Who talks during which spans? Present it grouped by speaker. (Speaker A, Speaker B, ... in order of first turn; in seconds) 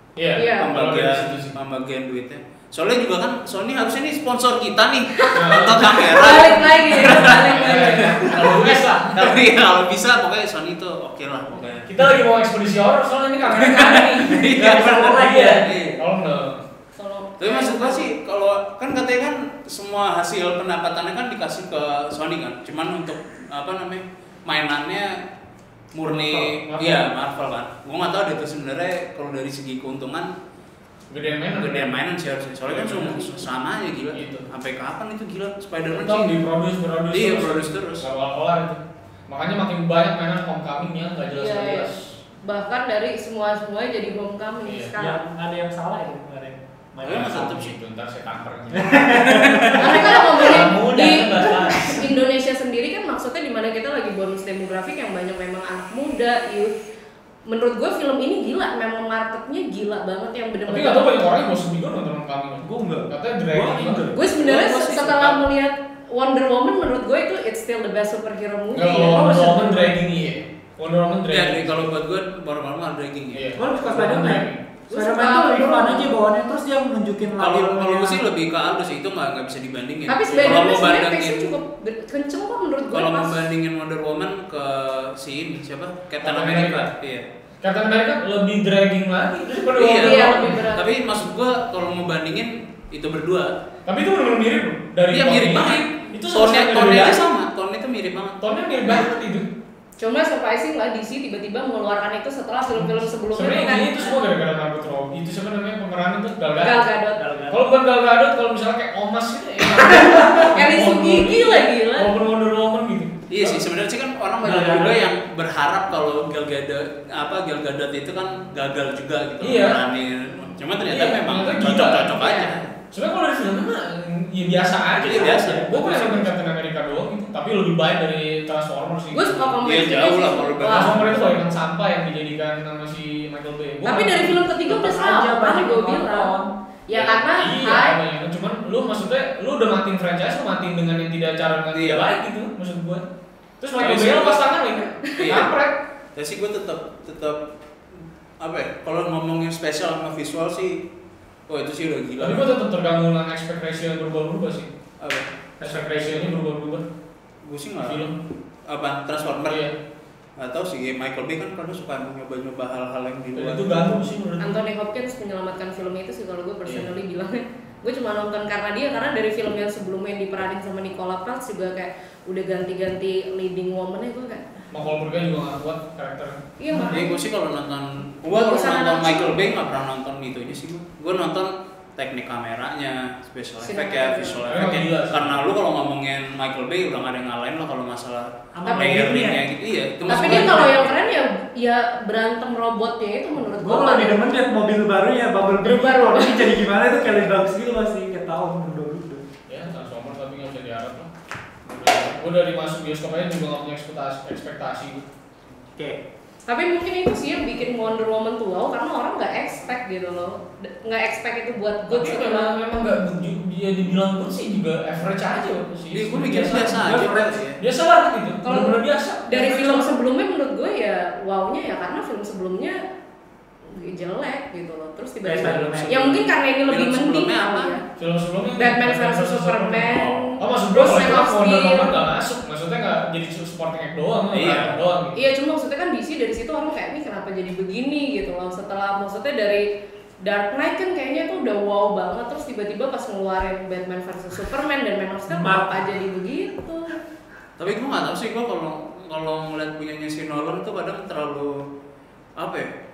Speaker A: 0.2-1.5, 5.3-9.5, 11.9-16.6, 26.0-27.0, 31.1-31.9, 32.6-33.3, 34.1-34.5, 35.9-42.0, 44.7-44.9, 47.0-52.1, 60.7-64.1, 68.7-71.9, 73.3-74.6, 80.3-80.7, 86.2-86.9, 87.6-90.7, 93.9-97.2, 98.4-99.5, 102.8-106.8, 107.5-113.6, 119.4-119.8, 120.8-122.2, 122.9-129.6, 130.6-134.5, 136.9-143.0, 143.6-145.8, 152.2-154.7, 155.6-156.8, 157.8-158.2, 159.2-159.7, 163.3-164.6, 166.7-166.9, 174.7-177.0, 184.5-185.4, 190.2-190.7, 199.5-201.1, 201.7-205.1, 211.9-216.9, 217.6-220.0, 228.0-235.2
Speaker B: 0.3-0.7, 5.2-8.4, 17.0-18.1, 41.3-41.9, 42.4-45.2, 49.7-56.7, 57.5-61.2, 64.1-69.9, 74.9-76.2, 80.1-83.4, 90.0-91.0, 100.0-104.2, 106.6-107.2, 109.8-112.1, 122.1-122.5, 129.1-131.0, 133.8-136.3, 136.9-138.0, 145.1-145.4, 164.4-174.5, 176.6-177.1, 178.3-179.5, 183.6-184.4, 188.7-189.0, 190.1-194.2, 195.6-196.6, 206.5-212.7, 218.4-222.9, 223.7-227.8, 228.6-232.0, 235.2-247.0
Speaker C: 0.6-11.9, 13.5-16.0, 17.4-25.2, 25.9-30.3, 31.5-36.4, 37.1-38.1, 47.0-47.8, 49.2-49.8, 64.4-65.4, 71.3-73.4, 77.4-81.5, 82.9-87.3, 89.8-93.5, 95.1-98.4, 113.3-122.7, 125.0-126.3, 129.6-131.2, 141.7-142.1, 143.8-144.4, 145.2-145.5, 146.2-147.5, 148.4-150.8, 151.5-152.5, 155.0-155.3, 157.4-158.0, 158.7-159.7, 160.4-164.0, 176.9-191.0, 215.9-217.6, 225.4-227.8, 234.3-234.8, 247.6-251.7, 252.4-252.7
Speaker D: 14.3-15.6, 45.0-47.7, 48.7-50.4, 62.6-64.3, 73.6-78.2, 107.2-107.6, 114.4-115.1, 125.0-126.0, 134.7-136.5, 155.6-156.3, 188.5-189.4, 190.2-190.4, 193.6-199.2, 216.4-217.4, 225.2-226.2, 245.3-245.9